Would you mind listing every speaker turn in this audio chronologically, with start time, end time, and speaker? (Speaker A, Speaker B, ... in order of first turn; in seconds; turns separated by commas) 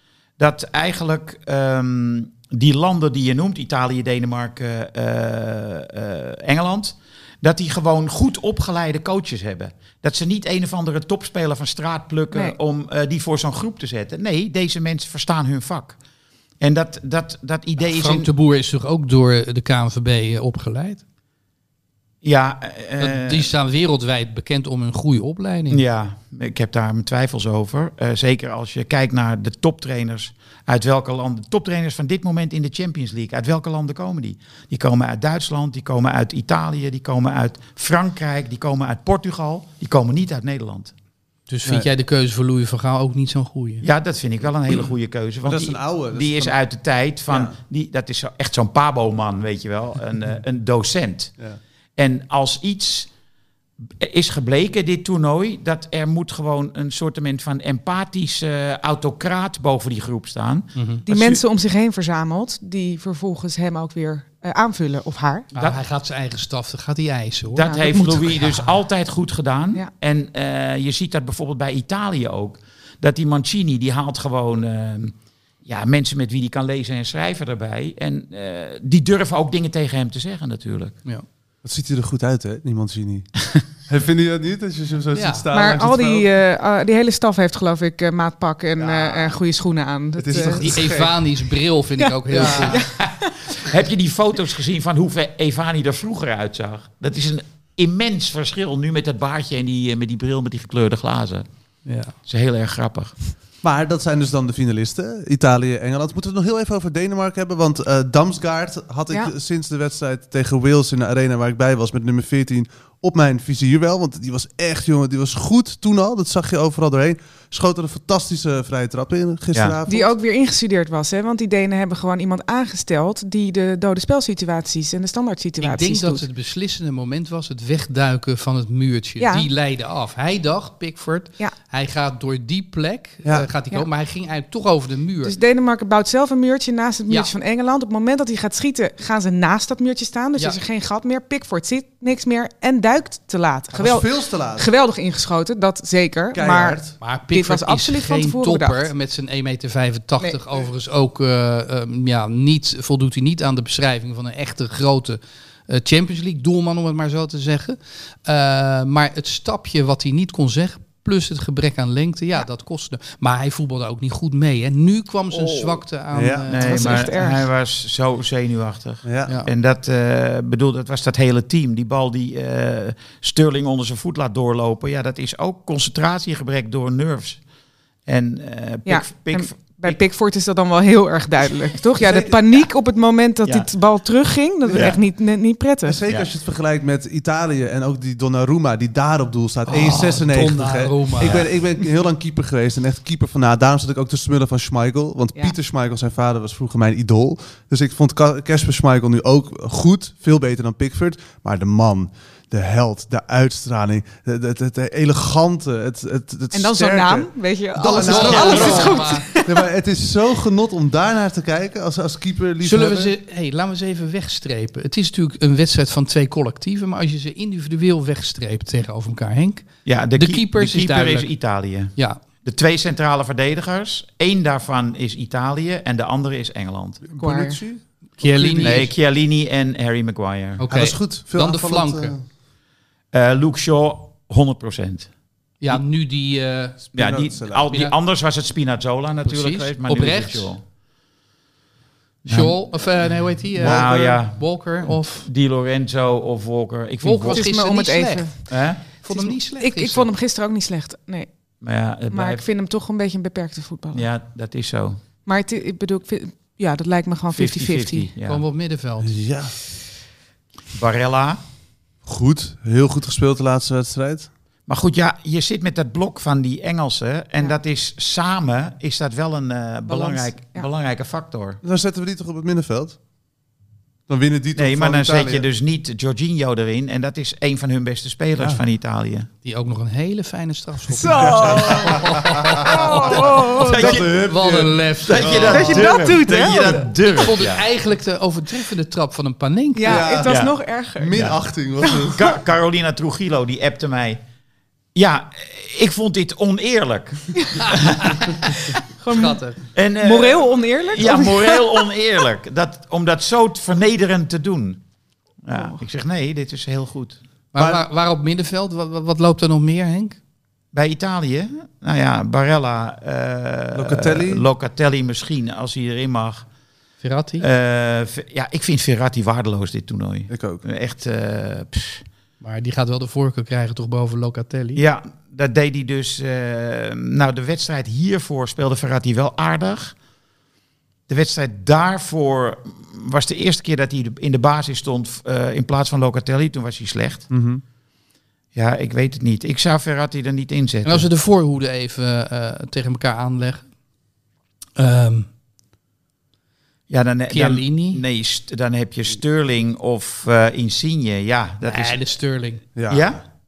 Speaker A: 0.4-16.0, Speaker A: 16.6-18.3, Speaker B: 17.8-21.0, Speaker A: 22.2-23.5, Speaker B: 23.0-25.8, Speaker A: 25.7-40.9, Speaker B: 41.5-43.8, Speaker A: 43.8-51.3, Speaker C: 45.5-46.5, Speaker C: 47.3-47.5, Speaker A: 52.0-53.1, Speaker A: 54.0-61.4, Speaker B: 60.8-61.0, Speaker D: 61.1-65.5, Speaker B: 65.5-68.8, Speaker A: 67.5-81.0, Speaker D: 67.7-68.0, Speaker C: 81.6-83.3, Speaker C: 83.8-86.3, Speaker B: 85.1-85.5, Speaker D: 85.5-90.7, Speaker C: 88.8-89.3, Speaker C: 90.2-91.2, Speaker B: 90.3-92.8, Speaker D: 92.0-93.5, Speaker A: 92.5-101.5, Speaker B: 101.8-102.1, Speaker A: 102.2-103.1, Speaker C: 103.6-120.1, Speaker D: 119.9-126.2, Speaker B: 125.6-135.3, Speaker D: 129.2-129.5, Speaker D: 135.2-146.8, Speaker C: 143.7-144.7, Speaker C: 146.3-147.0, Speaker B: 147.0-167.1, Speaker D: 147.3-148.9, Speaker D: 165.3-165.8, Speaker C: 166.1-166.5, Speaker A: 166.5-177.4, Speaker D: 166.6-167.4, Speaker C: 169.0-169.3, Speaker A: 178.1-180.0, Speaker D: 178.8-186.0, Speaker C: 182.0-182.4, Speaker A: 184.7-185.0, Speaker C: 185.8-213.1, Speaker B: 189.7-191.5, Speaker D: 206.5-209.5, Speaker B: 208.0-209.3, Speaker B: 212.6-221.3, Speaker A: 219.8-227.0, Speaker C: 227.0-228.9, Speaker D: 227.2-227.6, Speaker B: 228.2-228.9, Speaker A: 228.6-230.6, Speaker B: 230.6-232.1, Speaker C: 230.7-232.2, Speaker A: 233.1-235.1, Speaker B: 235.6-236.8, Speaker C: 236.9-237.7, Speaker A: 236.9-240.6, Speaker B: 239.2-240.5, Speaker B: 242.2-245.3, Speaker A: 242.3-242.5, Speaker C: 243.6-243.9, Speaker A: 243.6-247.4, Speaker B: 247.0-250.1, Speaker D: 247.3-248.4, Speaker A: 248.5-248.8, Speaker D: 249.1-251.3, Speaker A: 251.6-252.4, Speaker D: 252.1-254.1, Speaker A: 253.9-255.0, Speaker D: 255.2-258.1, Speaker A: 257.3-258.4, Speaker B: 258.2-259.1, Speaker C: 259.0-259.5, Speaker A: 260.7-261.4, Speaker C: 262.0-264.3, Speaker A: 264.7-271.6, Speaker D: 269.9-270.7, Speaker C: 271.6-273.0, Speaker C: 274.1-275.4, Speaker A: 274.6-279.3, Speaker B: 279.4-283.3, Speaker D: 280.9-283.8, Speaker C: 281.1-286.5, Speaker A: 283.0-284.1, Speaker B: 283.8-285.8, Speaker A: 285.1-287.6, Speaker D: 285.5-286.9, Speaker B: 287.1-290.1, Speaker D: 289.8-291.3, Speaker C: 289.8-290.4, Speaker A: 290.2-290.5, Speaker C: 291.0-292.3, Speaker A: 291.1-291.4, Speaker D: 291.8-292.1, Speaker A: 292.1-294.2, Speaker A: 294.9-298.8, Speaker D: 297.3-297.6, Speaker B: 297.6-298.2, Speaker D: 299.0-299.4, Speaker B: 299.1-299.6, Speaker A: 299.7-304.8, Speaker D: 300.0-301.8, Speaker A: 305.4-307.2, Speaker D: 305.5-305.8, Speaker B: 307.5-310.2, Speaker C: 307.6-307.8, Speaker A: 310.7-316.4, Speaker C: 313.7-314.5, Speaker B: 317.0-317.5, Speaker A: 317.4-322.0, Speaker C: 320.3-320.6, Speaker B: 322.4-324.8, Speaker A: 324.8-329.9, Speaker A: 331.1-337.3, Speaker C: 337.3-337.6, Speaker A: 338.5-341.1, Speaker B: 340.8-343.6, Speaker B: 344.8-345.3, Speaker A: 346.9-352.0, Speaker B: 347.3-348.0, Speaker B: 351.6-352.6, Speaker C: 352.8-353.2, Speaker A: 352.9-353.2